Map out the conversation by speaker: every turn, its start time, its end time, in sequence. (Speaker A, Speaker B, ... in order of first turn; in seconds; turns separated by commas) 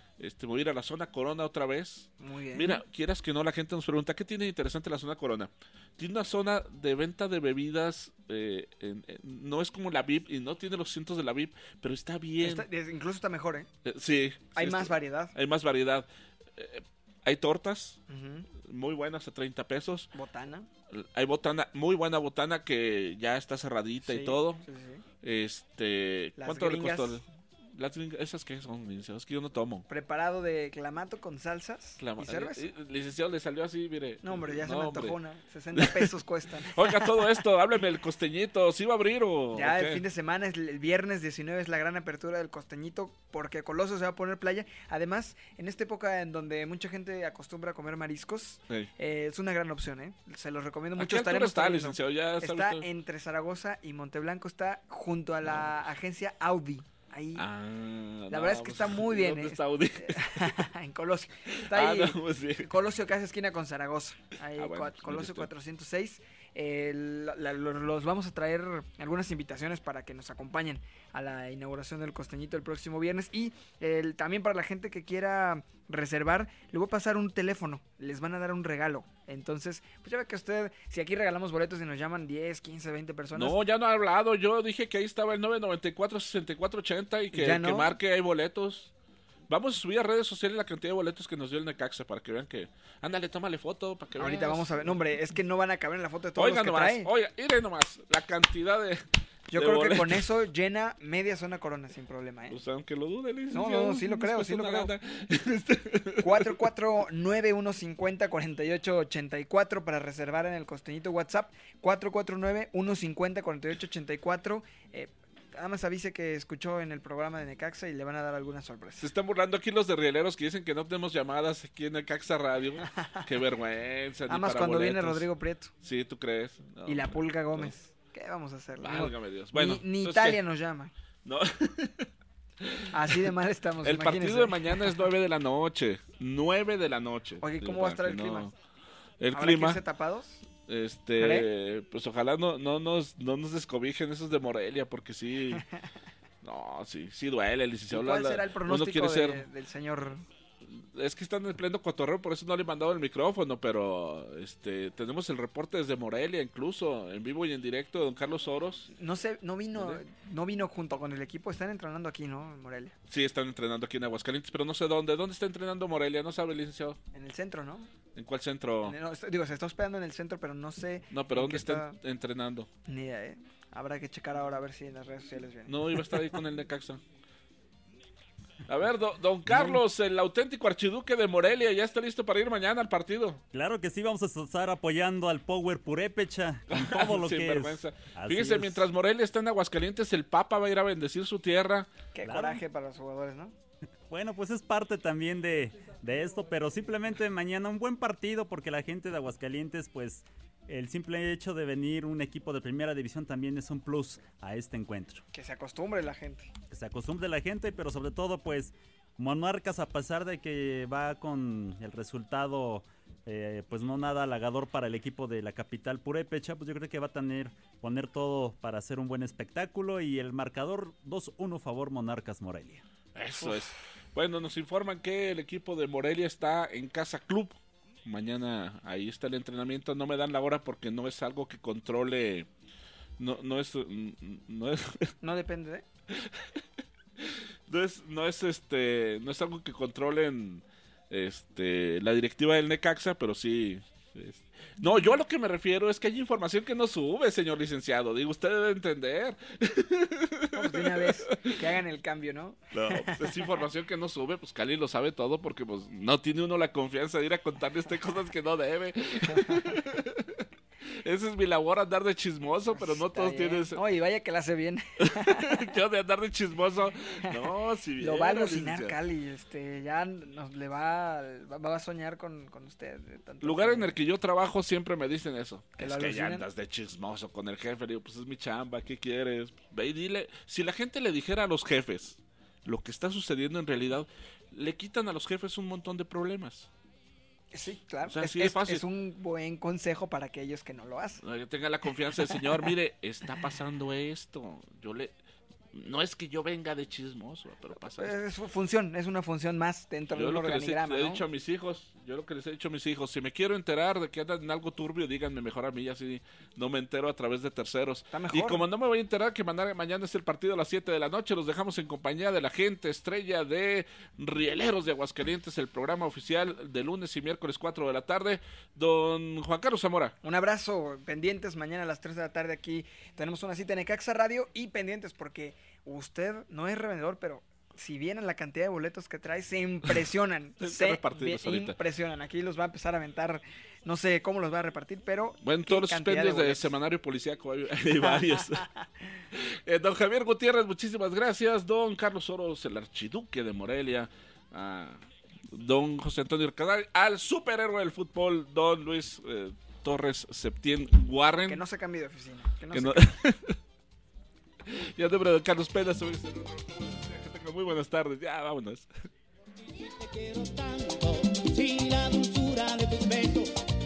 Speaker A: 0.2-12.7, Speaker B: 2.2-2.8, Speaker B: 12.4-13.7, Speaker A: 13.8-18.0, Speaker B: 14.6-15.3, Speaker B: 18.1-18.5, Speaker A: 18.6-20.1, Speaker B: 20.1-20.7, Speaker A: 20.9-24.6, Speaker B: 24.1-25.0, Speaker A: 25.2-29.9, Speaker B: 26.4-27.2, Speaker B: 29.9-32.6, Speaker A: 32.0-35.2, Speaker B: 34.2-37.1, Speaker A: 35.8-36.1, Speaker A: 36.7-40.0, Speaker B: 39.5-57.4, Speaker A: 51.0-52.9, Speaker A: 55.5-55.7, Speaker A: 57.4-60.4, Speaker B: 58.3-83.5, Speaker A: 61.7-62.7, Speaker A: 64.6-65.5, Speaker A: 83.3-88.9, Speaker B: 87.3-87.9, Speaker A: 89.5-95.0, Speaker B: 94.2-97.1, Speaker A: 96.4-100.2, Speaker B: 99.5-102.6, Speaker A: 102.5-106.5, Speaker B: 103.5-104.9, Speaker B: 106.2-119.1, Speaker A: 119.0-125.3, Speaker B: 124.3-125.7, Speaker A: 125.8-127.7, Speaker B: 126.9-130.9, Speaker A: 128.8-130.4, Speaker A: 131.2-132.1, Speaker A: 132.6-133.3, Speaker B: 132.9-134.6, Speaker A: 133.8-138.5, Speaker B: 137.4-138.5, Speaker A: 139.2-139.8, Speaker B: 139.3-140.5, Speaker A: 140.7-145.6, Speaker B: 141.2-141.5, Speaker A: 146.4-149.4, Speaker B: 147.9-150.2, Speaker A: 150.7-158.9, Speaker B: 158.9-162.9, Speaker A: 159.7-160.0, Speaker A: 163.1-167.0, Speaker B: 167.1-167.9, Speaker A: 168.2-169.0, Speaker B: 168.8-171.9, Speaker A: 171.1-172.7, Speaker B: 172.9-175.7, Speaker A: 175.7-177.0, Speaker A: 178.7-183.4, Speaker B: 179.5-179.8, Speaker C: 183.5-188.9, Speaker A: 186.7-191.9, Speaker B: 192.2-193.5, Speaker C: 192.2-192.6, Speaker C: 194.1-205.2, Speaker B: 205.3-206.5, Speaker C: 206.7-222.8, Speaker A: 223.2-232.5, Speaker A: 233.2-235.1, Speaker B: 235.2-235.8, Speaker A: 237.2-251.5, Speaker B: 250.6-252.6, Speaker A: 252.7-260.4, Speaker B: 259.4-259.7, Speaker A: 261.1-263.8, Speaker B: 262.8-265.6, Speaker A: 265.1-269.0, Speaker B: 268.0-273.9, Speaker A: 273.4-286.7, Speaker B: 275.8-276.4, Speaker B: 287.5-291.2, Speaker A: 288.1-288.8, Speaker A: 291.2-295.1, Speaker B: 292.3-292.7, Speaker A: 295.7-298.2, Speaker B: 298.0-301.2, Speaker A: 300.1-320.2, Speaker B: 308.1-308.6, Speaker B: 320.2-336.7, Speaker A: 330.6-331.8, Speaker A: 335.4-338.6, Speaker B: 338.0-338.6, Speaker A: 339.3-351.6, Speaker B: 351.5-353.0, Speaker A: 352.7-353.6, Speaker A: 354.7-358.9, Speaker D: 359.6-363.5